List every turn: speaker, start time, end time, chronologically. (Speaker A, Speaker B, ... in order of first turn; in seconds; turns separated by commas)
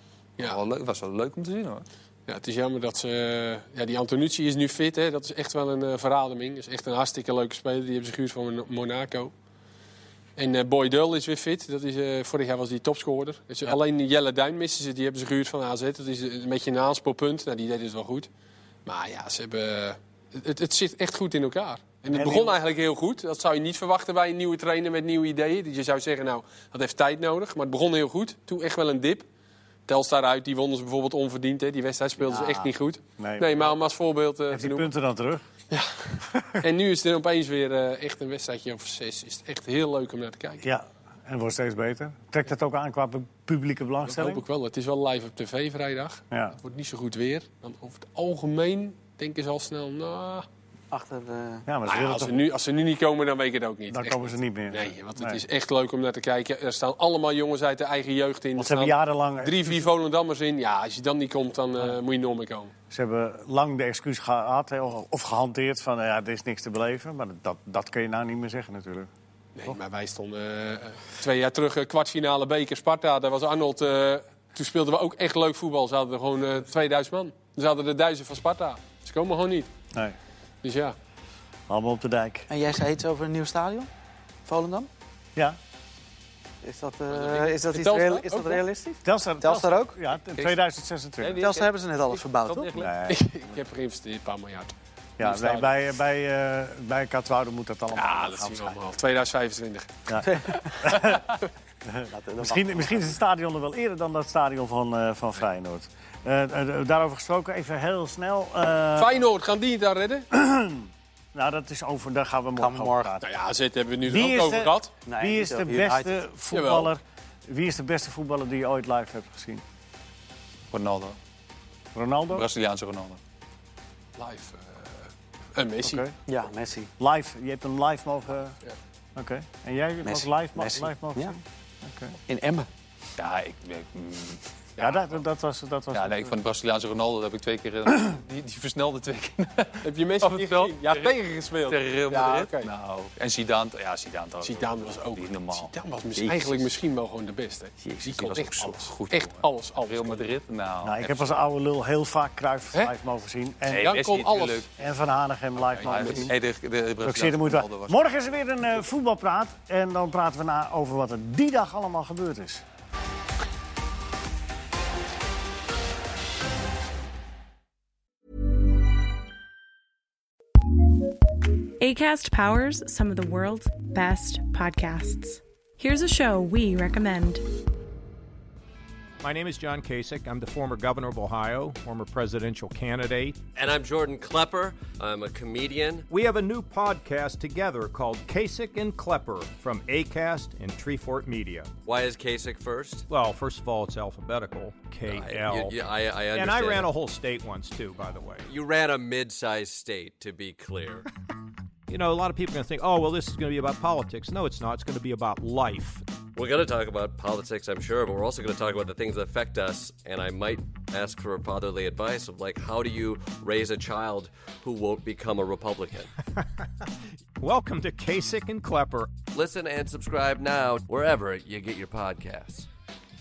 Speaker A: 0.4-1.8, Speaker B: 2.3-9.3, Speaker B: 10.4-18.3, Speaker B: 18.9-29.2, Speaker C: 22.1-22.6, Speaker B: 29.9-34.9, Speaker D: 32.2-32.7, Speaker C: 33.2-33.7, Speaker C: 34.5-35.4, Speaker B: 35.7-40.7, Speaker C: 36.2-36.6, Speaker C: 40.6-44.4, Speaker B: 44.1-50.5, Speaker C: 46.3-46.6, Speaker D: 50.9-51.7, Speaker C: 51.7-52.4, Speaker B: 51.9-62.7, Speaker C: 53.9-55.4, Speaker C: 58.5-59.9, Speaker C: 62.9-69.1, Speaker B: 69.5-79.7, Speaker B: 80.6-81.0, Speaker C: 81.7-82.5, Speaker D: 82.5-83.9, Speaker D: 84.5-84.9, Speaker D: 86.6-90.0, Speaker B: 87.1-88.6, Speaker C: 89.0-91.4, Speaker A: 90.3-90.6, Speaker A: 91.2-92.9, Speaker D: 91.4-92.7, Speaker C: 92.7-93.2, Speaker B: 93.1-95.8, Speaker C: 95.2-98.8, Speaker B: 97.9-100.6, Speaker C: 100.1-109.2, Speaker D: 100.2-101.0, Speaker D: 102.0-103.1, Speaker B: 109.0-110.2, Speaker C: 110.3-113.3, Speaker D: 112.5-113.1, Speaker B: 113.2-114.9, Speaker C: 114.0-119.6, Speaker D: 115.0-116.2, Speaker B: 116.5-116.9, Speaker A: 120.7-121.2, Speaker C: 121.9-122.5, Speaker A: 122.3-123.2, Speaker B: 124.2-126.0, Speaker C: 125.8-126.1, Speaker D: 126.3-126.9, Speaker C: 127.0-128.5, Speaker C: 129.2-132.2, Speaker D: 130.0-131.4, Speaker D: 132.3-132.7, Speaker A: 133.2-135.0, Speaker C: 134.8-136.3, Speaker A: 135.9-141.1, Speaker B: 139.8-142.7, Speaker A: 141.6-145.7, Speaker B: 144.4-150.3, Speaker D: 146.2-146.7, Speaker D: 147.8-148.5, Speaker A: 148.1-151.4, Speaker C: 150.8-154.0, Speaker A: 153.7-154.7, Speaker B: 153.7-154.7, Speaker C: 154.8-156.3, Speaker B: 155.8-156.3, Speaker A: 155.8-158.0, Speaker C: 157.0-162.6, Speaker E: 171.8-177.4, Speaker F: 179.2-183.4, Speaker G: 183.6-186.1, Speaker F: 186.1-191.7, Speaker G: 191.8-193.1, Speaker F: 193.1-195.7, Speaker G: 195.0-196.9, Speaker F: 196.3-198.5, Speaker G: 198.4-201.0, Speaker F: 201.9-206.0, Speaker G: 206.3-216.1, Speaker F: 217.4-219.1, Speaker G: 219.3-222.7